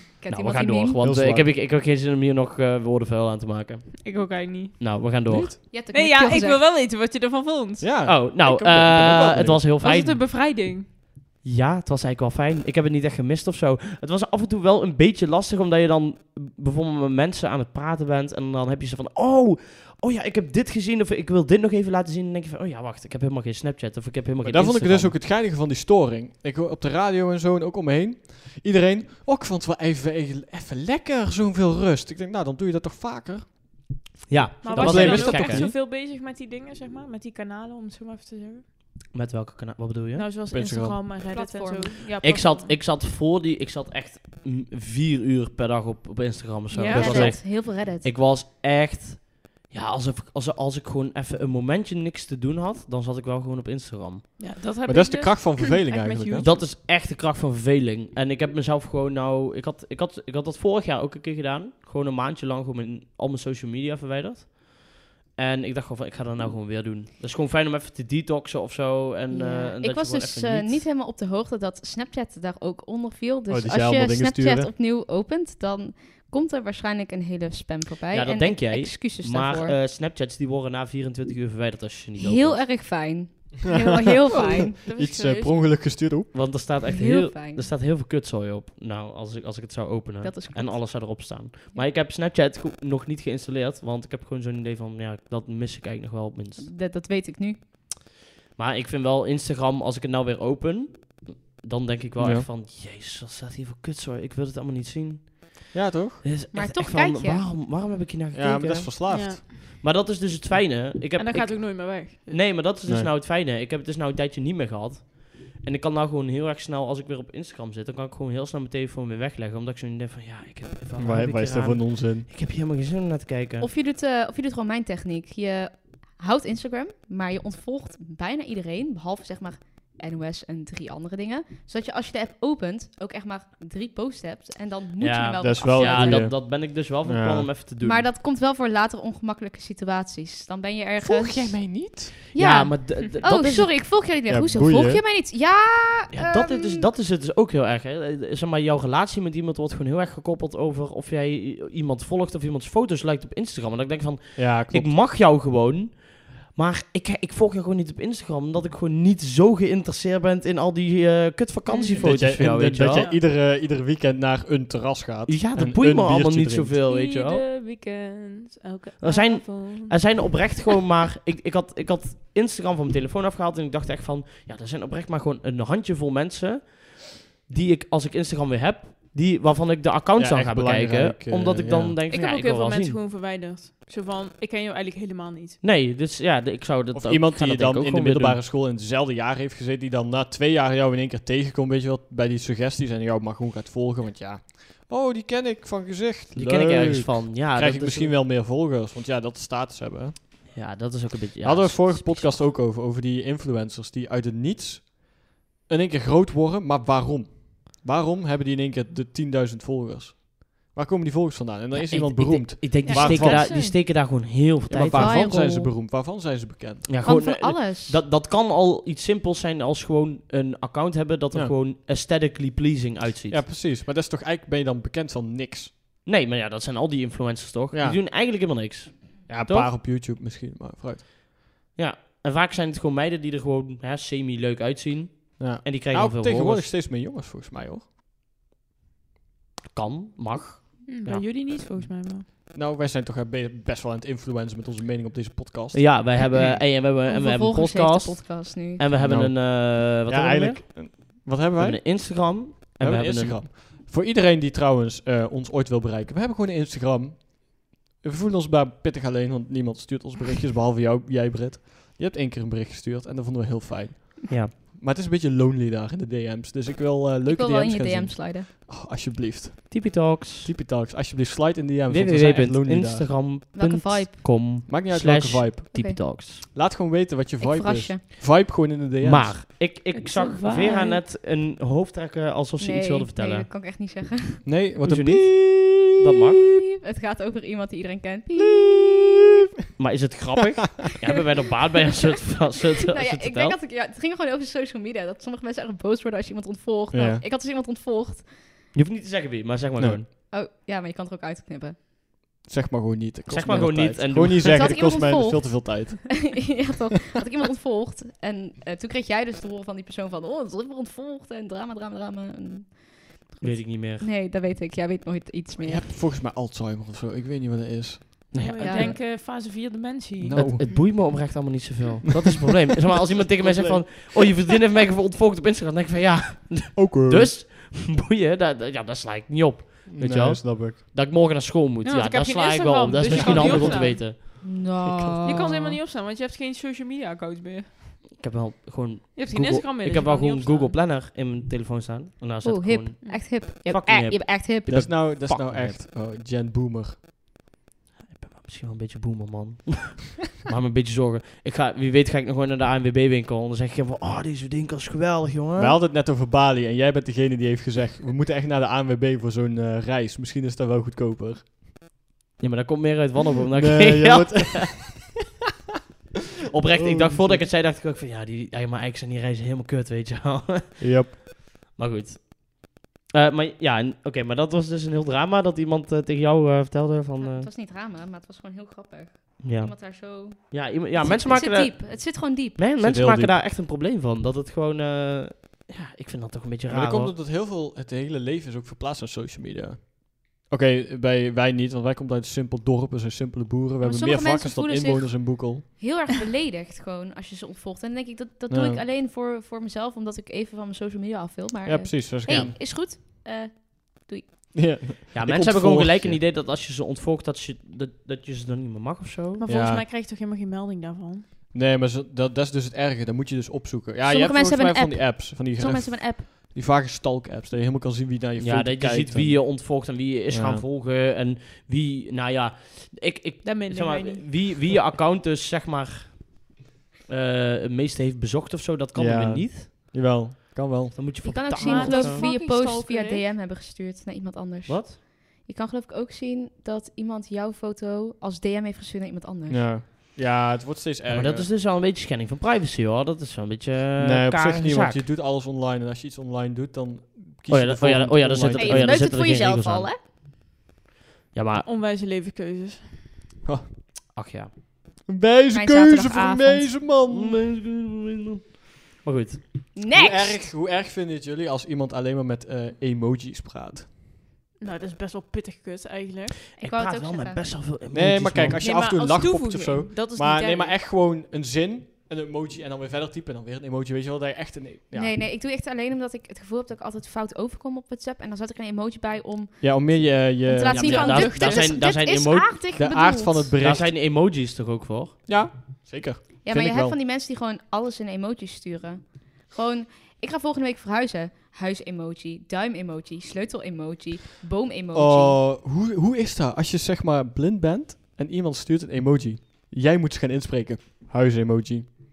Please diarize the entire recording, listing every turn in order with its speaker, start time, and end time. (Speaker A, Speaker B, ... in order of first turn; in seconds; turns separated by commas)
Speaker A: 0.2-1.0, Speaker B: 0.3-4.0, Speaker C: 1.0-1.5, Speaker D: 4.0-4.8, Speaker B: 4.8-5.6, Speaker A: 5.3-6.6, Speaker D: 5.9-7.9, Speaker C: 7.8-9.6, Speaker B: 8.0-10.2, Speaker D: 9.4-10.9, Speaker B: 11.4-25.1, Speaker C: 24.4-33.8, Speaker B: 34.3-35.7, Speaker D: 34.6-38.6, Speaker C: 34.7-35.7, Speaker B: 39.1-40.2, Speaker D: 40.1-42.7, Speaker C: 40.5-41.0, Speaker A: 41.3-42.1, Speaker B: 42.2-54.3, Speaker D: 46.7-47.4, Speaker A: 46.9-48.1, Speaker D: 54.4-56.7, Speaker C: 54.8-56.5, Speaker B: 56.4-70.8, Speaker A: 69.3-79.7, Speaker C: 73.5-74.7, Speaker B: 78.1-82.7, Speaker A: 82.2-84.8, Speaker C: 83.8-86.3, Speaker D: 84.3-85.8, Speaker B: 86.3-96.7, Speaker A: 86.8-87.7, Speaker A: 90.2-91.8, Speaker A: 96.6-97.6, Speaker B: 98.5-105.7, Speaker C: 102.2-102.5, Speaker C: 105.7-106.2, Speaker B: 106.2-123.7, Speaker A: 106.5-107.4, Speaker C: 108.3-109.4, Speaker D: 109.1-109.4, Speaker D: 111.2-112.5, Speaker C: 121.0-122.3, Speaker A: 123.6-136.3, Speaker B: 135.0-138.1, Speaker C: 135.4-137.5, Speaker A: 137.8-146.8, Speaker C: 141.0-142.1, Speaker B: 142.3-143.7, Speaker C: 144.3-145.0, Speaker B: 146.1-163.1, Speaker C: 154.3-154.9, Speaker D: 161.7-162.3, Speaker C: 162.0-166.8, Speaker D: 162.8-163.2, Speaker B: 165.3-167.4, Speaker D: 166.8-170.5, Speaker B: 169.0-183.0, Speaker C: 180.2-181.9, Speaker D: 182.1-185.6, Speaker B: 185.6-188.4, Speaker C: 186.9-200.1, Speaker B: 196.3-198.2, Speaker B: 200.5-202.4, Speaker C: 201.4-213.7, Speaker B: 211.7-215.3, Speaker D: 212.8-213.8, Speaker C: 214.7-216.9, Speaker A: 214.9-215.7, Speaker B: 216.9-223.4, Speaker A: 217.0-218.0, Speaker C: 223.3-225.7, Speaker B: 226.0-229.7, Speaker C: 227.7-228.0, Speaker C: 229.3-231.0, Speaker B: 231.7-236.7, Speaker C: 235.4-237.8, Speaker B: 239.7-241.2, Speaker D: 240.9-242.2, Speaker C: 242.5-246.5, Speaker B: 245.7-253.4, Speaker A: 247.0-248.8, Speaker C: 249.0-273.2, Speaker A: 267.3-268.5, Speaker B: 269.7-270.5, Speaker B: 271.9-276.4, Speaker A: 273.5-274.4, Speaker C: 274.6-275.6, Speaker A: 275.7-276.0, Speaker C: 276.4-279.4, Speaker A: 277.4-278.0, Speaker B: 279.0-283.5, Speaker D: 279.9-281.0, Speaker A: 280.6-280.9, Speaker A: 282.6-284.5, Speaker C: 284.4-286.1, Speaker B: 284.8-286.5, Speaker A: 286.8-288.8, Speaker C: 288.4-289.2, Speaker B: 289.8-293.6, Speaker A: 292.9-298.4, Speaker C: 296.9-297.2, Speaker B: 298.7-300.1, Speaker A: 300.1-301.8, Speaker C: 302.4-306.6, Speaker B: 303.3-304.8, Speaker A: 304.4-315.9, Speaker B: 313.4-314.1, Speaker C: 315.6-318.4, Speaker B: 318.3-318.9, Speaker D: 318.4-320.9, Speaker A: 318.6-318.9, Speaker C: 320.2-320.6, Speaker B: 320.4-334.2, Speaker C: 323.4-324.3, Speaker C: 326.7-327.3, Speaker C: 329.9-330.8, Speaker D: 331.8-334.0, Speaker C: 333.1-333.7, Speaker A: 333.3-335.6, Speaker C: 334.8-335.4, Speaker D: 335.2-338.0, Speaker B: 338.2-345.8, Speaker D: 339.1-340.8, Speaker A: 342.4-344.9, Speaker C: 344.7-347.0, Speaker B: 348.1-355.8, Speaker C: 355.6-361.5, Speaker B: 362.4-365.0, Speaker C: 363.5-365.1, Speaker B: 366.5-371.2, Speaker C: 366.7-367.5, Speaker C: 370.8-371.1, Speaker B: 371.7-377.5, Speaker A: 377.2-382.6, Speaker B: 379.4-387.1, Speaker C: 382.8-383.4, Speaker C: 386.7-395.6, Speaker A: 393.8-404.4, Speaker C: 398.5-398.8, Speaker C: 401.6-402.6, Speaker B: 402.2-402.5, Speaker C: 404.5-406.2, Speaker B: 405.1-409.4, Speaker D: 409.4-411.2, Speaker C: 409.4-409.8, Speaker C: 411.5-420.6, Speaker A: 414.0-416.3, Speaker B: 418.4-426.5, Speaker D: 423.4-424.3, Speaker B: 427.1-429.7, Speaker C: 428.9-431.0, Speaker B: 430.9-432.2, Speaker A: 431.2-439.7, Speaker D: 431.6-433.2, Speaker B: 434.7-434.9, Speaker C: 439.5-441.5, Speaker B: 441.1-445.0, Speaker C: 444.0-449.0, Speaker B: 447.5-449.9, Speaker A: 448.5-450.0, Speaker B: 451.3-451.7, Speaker D: 451.6-453.0, Speaker C: 453.4-453.7, Speaker B: 454.1-454.5, Speaker C: 455.1-457.4, Speaker A: 455.5-456.8, Speaker B: 457.1-459.7, Speaker A: 459.7-460.5, Speaker C: 459.9-463.9, Speaker D: 464.6-466.4, Speaker A: 466.6-467.4, Speaker B: 466.6-468.6, Speaker C: 467.9-475.1, Speaker D: 468.6-470.8, Speaker A: 474.9-483.5, Speaker C: 479.6-481.5, Speaker B: 480.7-482.6, Speaker C: 482.7-483.9, Speaker B: 483.6-485.1, Speaker C: 485.2-486.9, Speaker A: 486.4-495.4, Speaker C: 494.9-502.0